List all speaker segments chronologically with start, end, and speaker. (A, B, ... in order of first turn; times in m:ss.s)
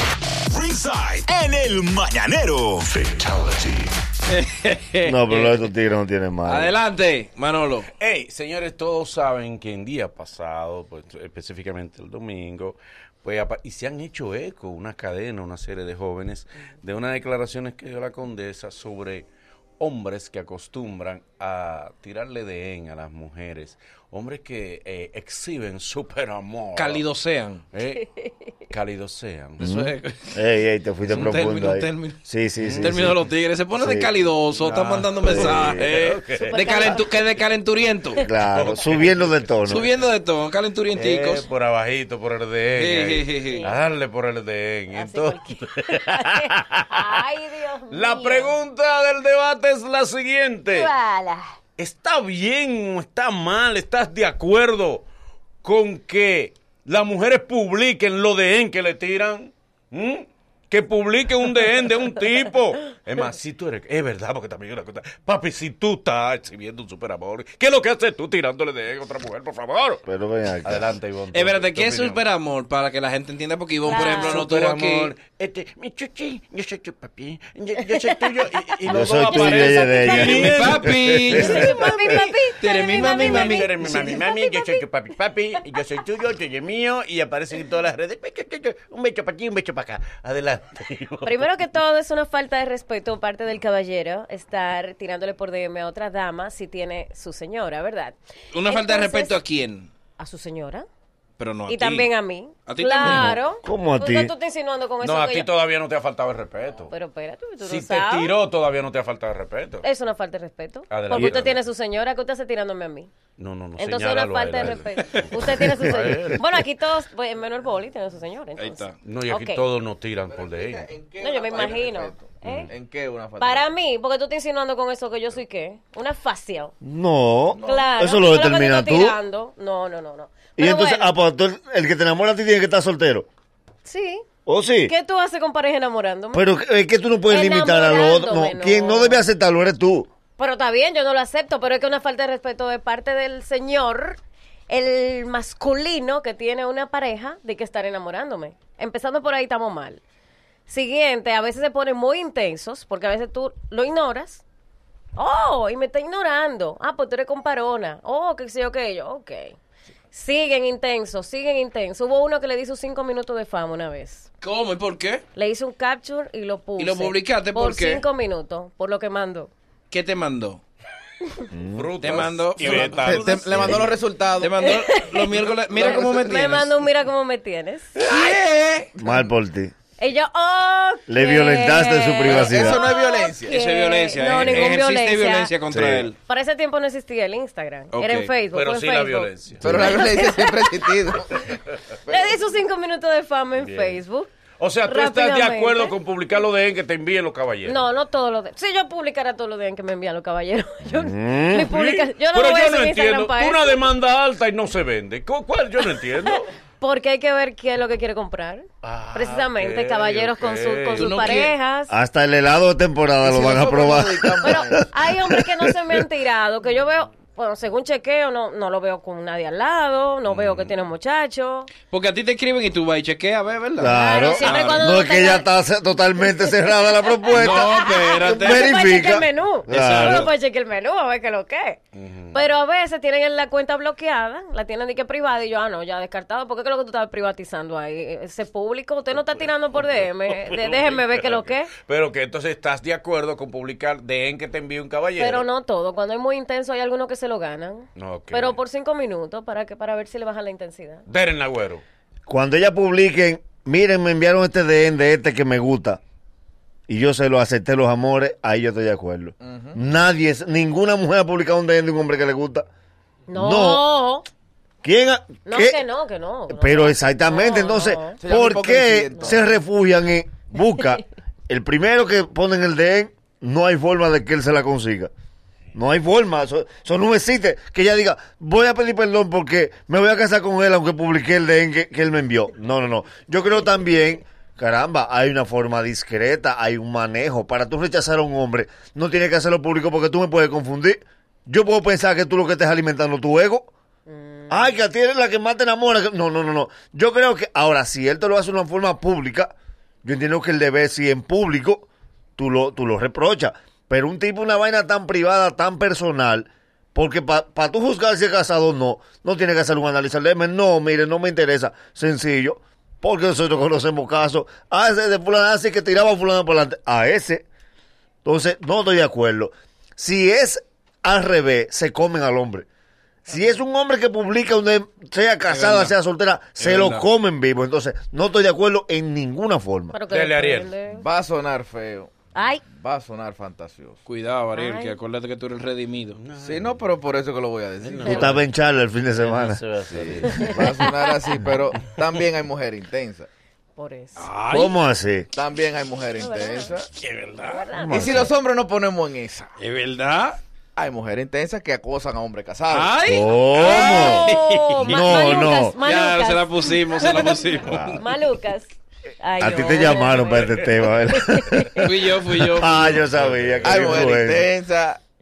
0:00.5-0:03.4 A
0:04.3-0:05.6 B
0:05.0-0:06.7 C
0:06.4-0:07.9 B
0:08.0-0:19.2 D
0:19.8-0:27.0 D
0:26.7-0:27.6 B
0:27.7-0:28.0 D
0:28.0-0:28.3 E
0:28.7-0:29.6 D
0:29.6-0:30.4 B
0:29.6-0:33.2 C
0:31.1-0:32.2 B
0:32.6-0:32.9 D
0:32.8-0:38.2 B
0:33.7-0:34.1 C
0:34.6-0:36.6 D
0:35.2-0:35.9 C
0:36.3-0:37.1 E
0:38.2-0:39.9 C
0:38.5-0:39.9 D
0:39.7-0:41.5 B
0:40.9-0:47.0 D
0:42.8-0:43.6 B
0:43.4-0:43.8 E
0:44.9-0:48.5 E
0:47.9-0:50.9 D
0:50.7-0:51.4 E
0:51.8-0:55.0 D
0:55.6-1:10.0 D
1:10.0-1:10.9 C
1:10.6-1:12.2 D
1:11.3-1:15.1 B
1:13.8-1:14.4 E
1:13.9-1:21.8 D
1:17.9-1:18.3 E
1:18.8-1:21.8 C
1:18.9-1:20.5 E
1:20.2-1:22.0 B
1:21.3-1:24.8 E
1:22.6-1:23.7 B
1:22.9-1:31.6 D
1:31.2-1:39.4 E
1:38.5-1:39.9 B
1:40.2-1:40.9 E
1:41.4-1:42.1 B
1:41.7-1:45.5 E
1:42.6-1:43.3 B
1:43.0-1:44.3 C
1:45.0-1:46.9 D
1:46.9-1:48.4 E
1:47.6-1:49.9 D
1:49.8-1:53.1 E
1:50.9-1:51.6 D
1:53.4-1:56.5 D
1:53.8-1:59.6 E
1:56.1-1:56.4 C
1:58.6-1:59.0 B
1:59.0-2:00.9 D
2:00.3-2:03.6 F
2:01.2-2:02.7 E
2:02.4-2:02.7 D
2:03.4-2:06.7 E
2:06.8-2:09.2 C
2:07.5-2:07.9 F
2:07.6-2:11.1 E
2:10.6-2:13.3 C
2:13.8-2:14.3 E
2:14.4-2:14.9 C
2:14.8-2:16.4 E
2:16.3-2:20.1 C
2:17.3-2:19.2 E
2:20.4-2:30.0 E
2:30.7-2:34.4 E
2:35.2-2:39.6 E
2:40.1-2:44.3 E
2:44.4-2:45.2 B
2:45.3-2:49.5 E
2:46.8-2:48.0 B
2:49.9-2:50.6 B
2:51.5-2:51.9 C
2:51.7-2:53.9 D
2:52.0-2:53.8 B
2:52.6-2:54.6 F
2:54.4-2:56.7 B
2:54.6-2:58.2 E
2:58.0-2:58.9 B
2:59.0-2:59.3 F
2:59.0-2:59.7 C
3:00.0-3:05.5 E
3:01.1-3:02.8 C
3:02.2-3:03.6 F
3:03.5-3:06.2 B
3:05.7-3:06.1 C
3:06.2-3:10.9 E
3:07.9-3:08.3 B
3:08.5-3:10.0 D
3:09.6-3:11.4 F
3:12.1-3:14.3 E
3:13.6-3:14.0 D
3:14.6-3:17.8 D
3:14.8-3:15.9 E
3:17.6-3:23.8 E
3:20.9-3:21.6 C
3:21.6-3:26.5 D
3:26.8-3:31.9 E
3:28.8-3:31.5 D
3:31.0-3:31.5 F
3:31.9-3:36.0 C
3:33.2-3:34.9 F
3:34.4-3:41.7 E
3:40.3-3:40.7 D
3:41.8-3:44.8 B
3:43.8-3:50.3 C
3:43.9-3:45.4 E
3:46.2-3:51.8 E
3:47.3-3:48.7 B
3:49.7-3:50.3 B
3:51.9-3:52.4 D
3:52.3-4:01.7 E
4:00.3-4:05.5 D
4:05.2-4:11.0 E
4:08.0-4:08.6 D
4:11.1-4:11.8 D
4:12.3-4:16.0 C
4:16.9-4:22.7 C
4:19.4-4:19.8 F
4:23.3-4:24.3 E
4:23.3-4:23.9 C
4:24.8-4:25.8 C
4:25.4-4:28.2 E
4:26.5-4:35.1 C
4:28.2-4:29.4 F
4:35.7-4:53.7 C
4:54.1-4:54.8 E
4:54.5-4:59.5 C
5:00.0-5:01.8 C
5:02.4-5:17.4 C
5:18.2-5:22.7 C
5:23.3-5:30.0 C
5:23.3-5:23.6 E
5:25.5-5:25.9 B
5:26.6-5:27.0 B
5:29.9-5:31.0 E
5:30.1-5:30.7 D
5:30.9-5:32.1 F
5:32.3-5:32.6 E
5:32.6-5:34.0 F
5:34.0-5:36.2 B
5:34.5-5:35.0 E
5:36.1-5:36.8 D
5:36.4-5:38.3 F
5:37.8-5:38.5 D
5:38.0-5:38.4 E
5:38.0-5:39.6 C
5:39.2-5:40.8 D
5:39.9-5:43.3 F
5:40.2-5:41.3 E
5:43.8-5:44.3 E
5:44.2-5:44.7 B
5:44.5-5:45.3 C
5:45.3-5:46.9 F
5:46.1-5:46.7 E
5:47.0-5:47.6 D
5:47.4-5:48.3 E
5:47.8-5:48.3 C
5:47.9-5:49.5 F
5:49.6-5:50.4 B
5:50.8-5:52.9 F
5:52.7-5:58.0 B
5:53.1-5:54.3 C
5:53.7-5:57.3 E
5:54.8-5:55.8 C
5:57.6-5:58.0 C
5:58.0-6:01.7 E
5:59.4-6:04.5 C
6:01.8-6:03.0 B
6:02.7-6:04.0 D
6:03.6-6:05.0 F